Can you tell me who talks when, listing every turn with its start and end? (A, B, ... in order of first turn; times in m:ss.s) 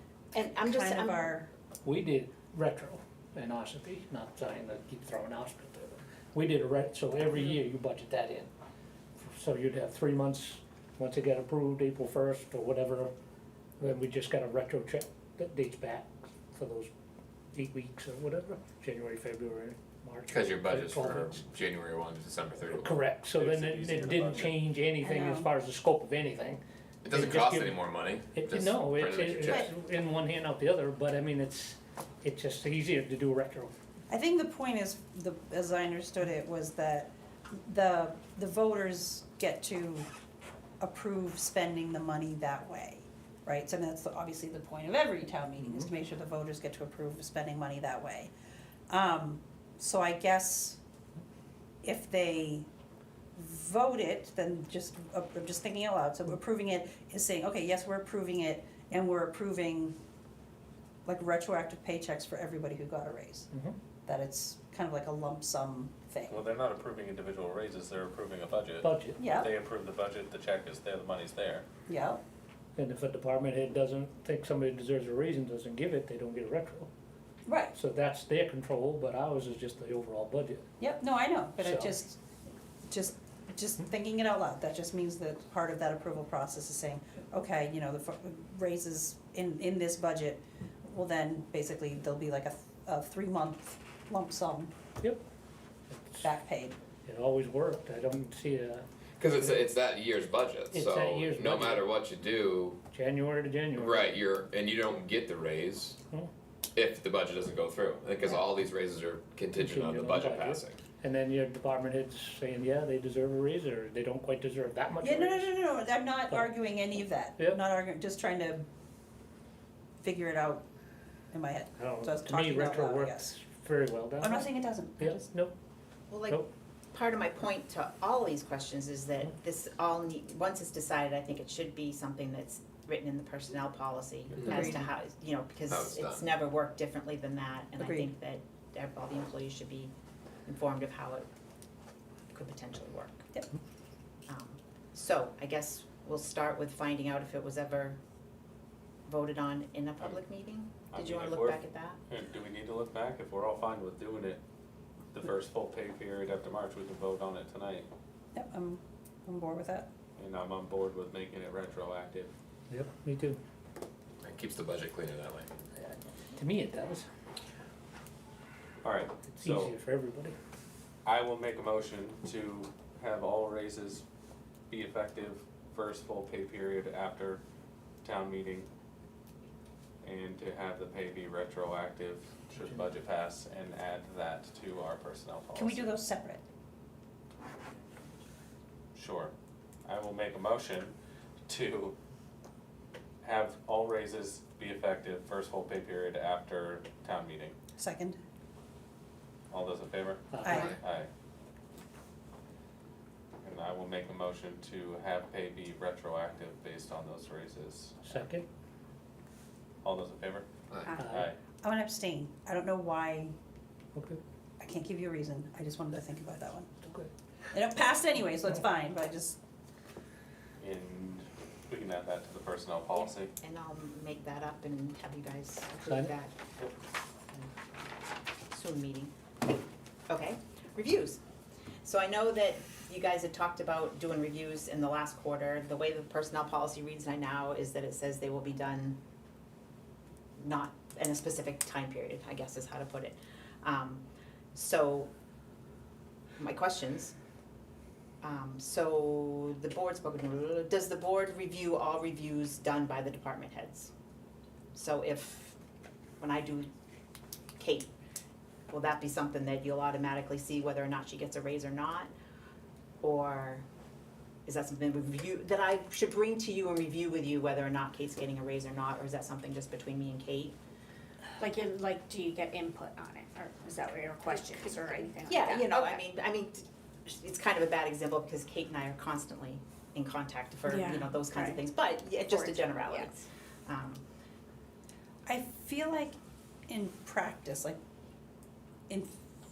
0:00.3-0:01.3 A
0:00.3-0:01.5 B
0:01.8-0:08.5 C
0:09.2-0:13.1 C
0:13.8-0:16.9 C
0:17.5-0:21.4 C
0:20.3-0:23.0 D
0:22.7-0:33.7 C
0:23.3-0:24.6 E
0:25.0-0:25.5 B
0:27.0-0:29.7 D
0:34.1-0:40.1 B
0:40.8-0:48.3 B
0:45.6-0:45.9 C
0:48.9-0:50.8 B
0:51.8-0:52.7 B
0:53.3-0:59.9 B
1:01.0-1:03.5 B
1:04.0-1:06.4 B
1:06.3-1:11.6 E
1:08.8-1:09.3 C
1:09.2-1:09.5 B
1:11.9-1:12.2 B
1:12.8-1:16.9 C
1:17.4-1:17.7 B
1:17.7-1:20.6 C
1:20.8-1:22.2 B
1:21.6-1:21.9 C
1:22.9-1:34.7 B
1:35.9-1:36.3 C
1:36.2-1:36.8 B
1:37.0-1:39.6 C
1:39.2-1:42.8 D
1:40.7-1:41.9 C
1:42.9-1:44.2 C
1:43.7-1:46.0 D
1:46.7-1:50.8 D
1:49.5-1:55.5 C
1:55.0-1:58.7 B
1:56.3-1:56.6 C
2:00.0-2:00.6 B
2:01.3-2:03.3 B
2:01.8-2:05.5 C
2:04.2-2:05.2 B
2:06.1-2:19.9 A
2:14.4-2:14.7 D
2:14.4-2:14.8 B
2:15.7-2:16.3 D
2:17.8-2:18.1 B
2:20.5-2:21.2 A
2:22.3-2:23.3 A
2:24.3-2:28.0 A
2:29.1-2:32.0 A
2:30.9-2:34.4 E
2:35.1-2:37.9 E
2:38.3-2:39.9 B
2:40.2-2:42.3 E
2:42.7-2:43.4 C
2:44.2-2:45.5 D
2:46.3-2:47.1 C
2:48.8-2:49.7 E
2:49.3-2:50.4 C
2:51.0-2:54.0 E
2:54.7-2:57.4 E
2:58.0-2:58.7 E
3:00.0-3:05.9 E
3:05.5-3:06.4 B
3:08.9-3:09.3 E
3:09.8-3:10.9 E
3:11.5-3:12.0 E
3:13.2-3:17.6 E
3:17.8-3:18.2 B
3:19.5-3:21.1 E
3:20.3-3:20.7 C
3:20.4-3:20.7 B
3:23.4-3:28.1 E
3:28.0-3:28.4 C
3:29.8-3:31.4 E
3:30.7-3:31.0 D
3:31.0-3:31.3 C
3:31.6-3:33.3 B
3:33.9-3:34.2 C
3:34.6-3:36.7 B
3:37.5-3:39.4 B
3:40.6-3:43.3 E
3:42.9-3:46.3 A
3:45.8-3:46.1 C
3:48.5-3:49.1 A
3:50.1-3:51.2 A
3:51.8-3:59.0 A
4:00.4-4:05.1 A
4:06.4-4:07.1 A
4:08.2-4:13.9 A
4:14.7-4:15.6 A
4:16.2-4:16.7 A
4:17.6-4:17.9 A
4:18.7-4:22.1 A
4:23.0-4:23.6 A
4:24.4-4:30.6 A
4:31.4-4:36.0 F
4:35.2-4:44.0 A
4:40.6-4:43.1 F
4:45.2-4:46.2 B
4:46.7-4:47.8 B
4:48.9-4:49.2 B